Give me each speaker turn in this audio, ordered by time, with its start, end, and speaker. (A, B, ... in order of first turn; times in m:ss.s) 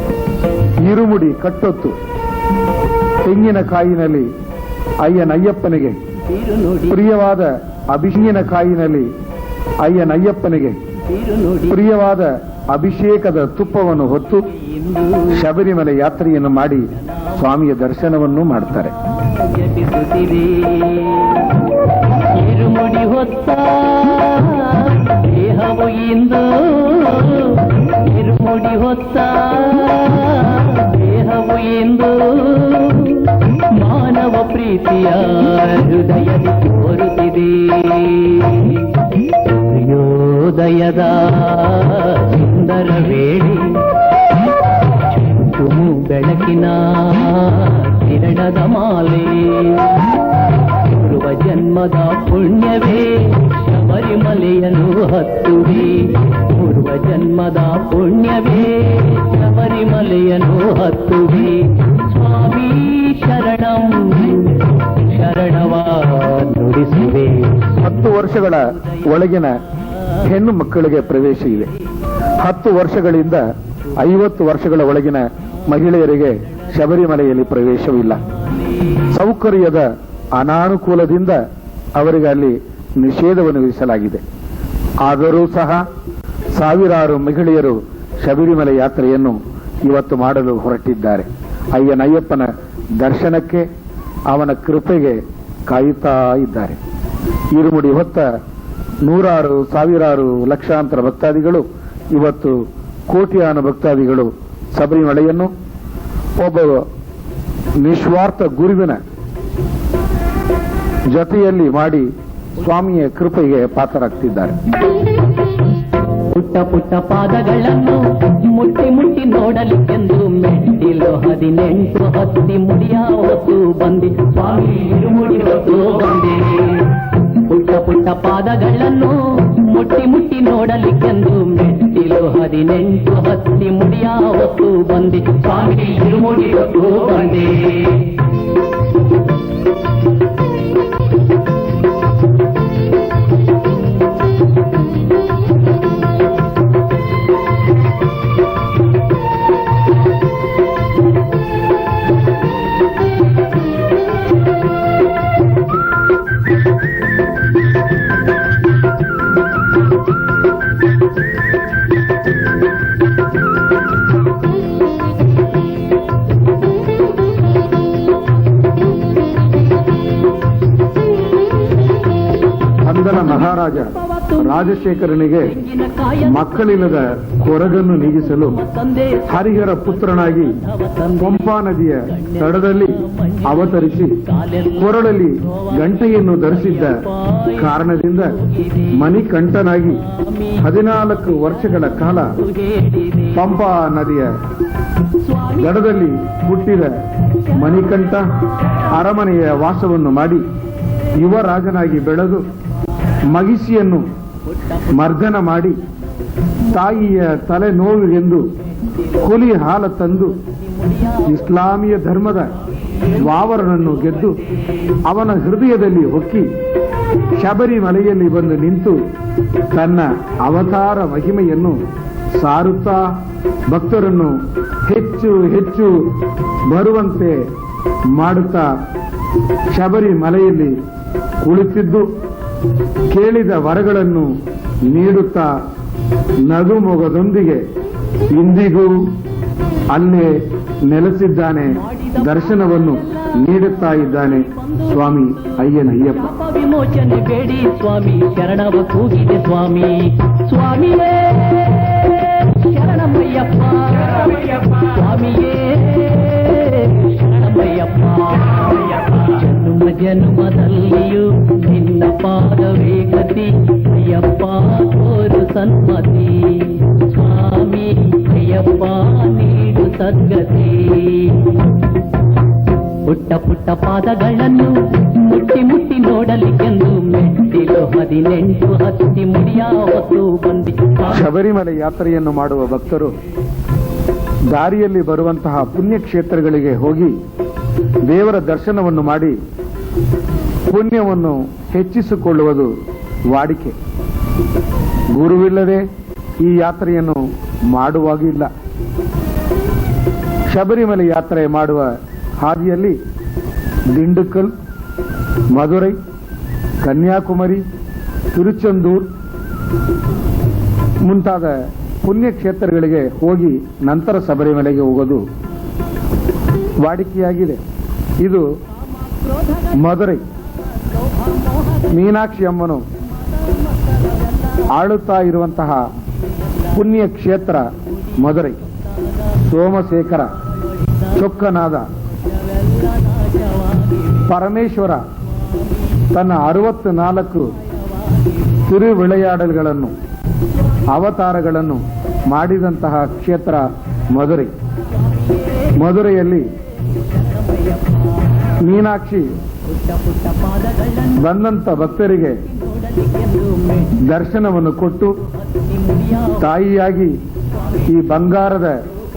0:00.8-0:02.0 A
0:03.2-0:04.3 A
0:05.0-0:06.0 A
0:06.2-0:07.0 B
0:06.9-0:09.1 A
0:09.8-0:10.8 A
0:11.0-0:11.8 B
0:11.7-0:14.4 A
0:14.5-0:15.4 B
0:15.3-0:18.9 A
0:19.0-0:21.6 B
0:22.1-0:43.9 B
0:44.9-0:50.1 B
0:50.7-1:07.8 B
1:07.8-1:09.6 A
1:10.2-1:11.7 A
1:12.4-1:18.2 A
1:19.1-1:21.4 A
1:22.0-1:24.2 A
1:25.0-1:25.8 A
1:26.6-1:33.7 A
1:34.3-1:36.8 A
1:37.5-1:38.3 A
1:39.0-1:42.6 A
1:43.1-1:45.5 A
1:46.4-1:46.8 A
1:47.8-1:49.0 A
1:51.1-1:54.6 A
1:56.3-2:18.2 B
2:52.8-2:55.6 A
2:54.0-2:54.4 B
2:55.4-2:56.7 B
2:56.2-2:58.6 A
2:58.3-3:01.5 B
2:59.3-3:00.6 A
3:01.2-3:04.2 A
3:02.1-3:04.9 B
3:04.7-3:08.4 A
3:05.6-3:05.8 B
3:06.5-3:07.7 B
3:08.4-3:09.0 B
3:08.9-3:10.0 A
3:10.1-3:10.6 B
3:10.6-3:12.4 A
3:12.2-3:13.4 B
3:13.3-3:14.3 A
3:15.3-3:15.5 B
3:15.5-3:16.9 A
3:17.5-3:20.4 A
3:21.2-3:22.5 A
3:23.3-3:24.1 A
3:24.9-3:25.8 A
3:26.7-3:28.5 A
3:29.1-3:30.4 A
3:30.7-3:31.3 B
3:31.2-3:32.5 A
3:33.1-3:34.4 A
3:35.0-3:36.5 A
3:37.4-3:39.0 A
3:39.7-3:41.8 A
3:42.4-3:43.1 A
3:43.7-3:46.1 A
3:46.7-3:47.4 A
3:48.1-3:48.7 A
3:49.7-3:50.7 A
3:51.4-3:52.1 A
3:53.1-3:54.3 A
3:54.9-3:55.5 A
3:56.4-3:57.6 A
3:58.3-3:58.9 A
3:59.9-4:06.3 A
4:01.9-4:03.4 B
4:06.2-4:31.7 B
4:33.0-4:41.2 B
4:41.1-4:43.1 A
4:44.5-4:47.1 A
4:48.1-4:49.4 A
4:50.7-4:52.7 A
4:53.3-4:53.8 A
4:55.1-4:55.8 A
4:56.4-4:58.5 A
5:00.5-5:03.0 A
5:03.9-5:04.5 A
5:05.5-5:06.0 A
5:06.8-5:07.6 A
5:08.3-5:09.1 A
5:11.0-5:15.2 A
5:16.8-5:17.6 A
5:18.2-5:18.4 A
5:19.2-5:19.7 B
5:19.7-5:20.2 A
5:20.9-5:21.9 B
5:21.9-5:22.8 A
5:23.5-5:24.6 B
5:24.7-5:25.9 A
5:26.7-5:28.6 A
5:29.4-5:30.3 A
5:31.1-5:31.9 A
5:32.3-5:34.2 B
5:34.3-5:35.0 A
5:36.1-5:37.5 A
5:38.7-5:39.9 A
5:40.9-5:44.5 A
5:45.0-5:45.8 B
5:45.7-5:46.5 A
5:46.8-5:48.5 B
5:48.6-5:49.3 A
5:49.6-5:51.2 B
5:51.2-5:52.4 A
5:52.5-5:54.0 B
5:54.0-5:55.2 A
5:55.4-5:56.4 B
5:56.3-5:57.2 A
5:57.8-5:58.8 A